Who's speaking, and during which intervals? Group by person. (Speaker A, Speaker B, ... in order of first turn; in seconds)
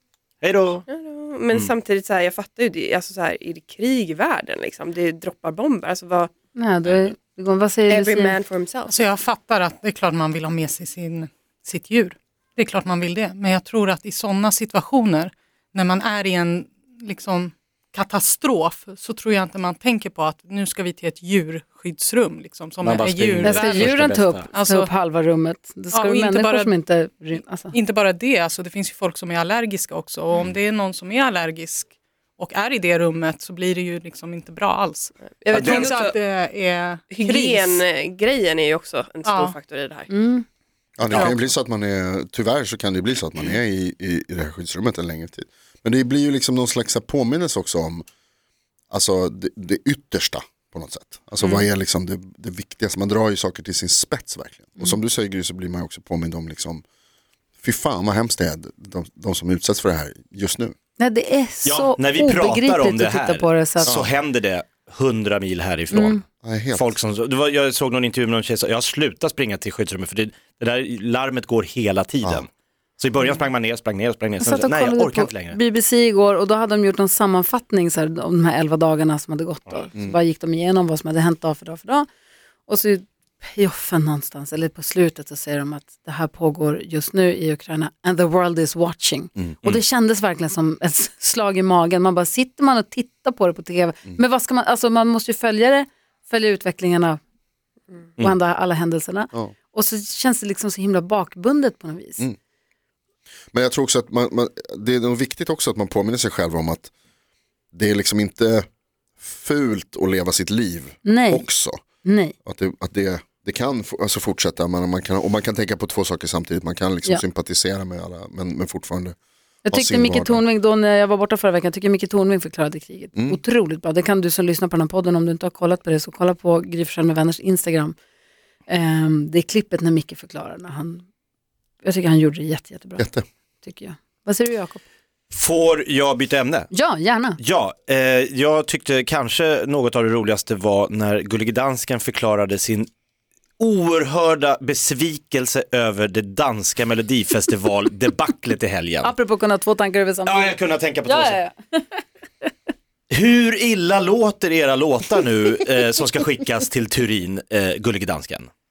Speaker A: 0.4-0.8, 22.8-24.5, 61.7-66.2, 66.7-75.6, 135.3-136.7, 137.4-142.9, 143.6-149.1, 150.3-151.4, 153.1-158.5
Speaker B: 0.8-6.3, 7.9-9.1, 35.2-36.1, 37.1-40.1
Speaker C: 6.5-8.4, 23.4-27.8, 40.1-40.5, 61.0-64.0, 65.9-66.2, 74.4-82.1, 82.7-97.2, 98.2-102.2, 111.0-111.5, 112.0-112.3, 119.7-128.0, 128.7-131.1, 131.8-133.1, 133.6-134.8, 136.7-137.4, 149.0-152.0
Speaker D: 8.9-24.9, 25.9-26.7, 27.7-37.8, 39.2-39.5, 41.1-41.5
Speaker E: 41.0-48.0, 48.9-56.8, 57.6-60.8, 63.8-64.2, 66.4-66.9, 103.5-106.9, 107.7-108.7, 109.2-111.8, 112.5-119.2, 119.7-120.4, 133.0-133.2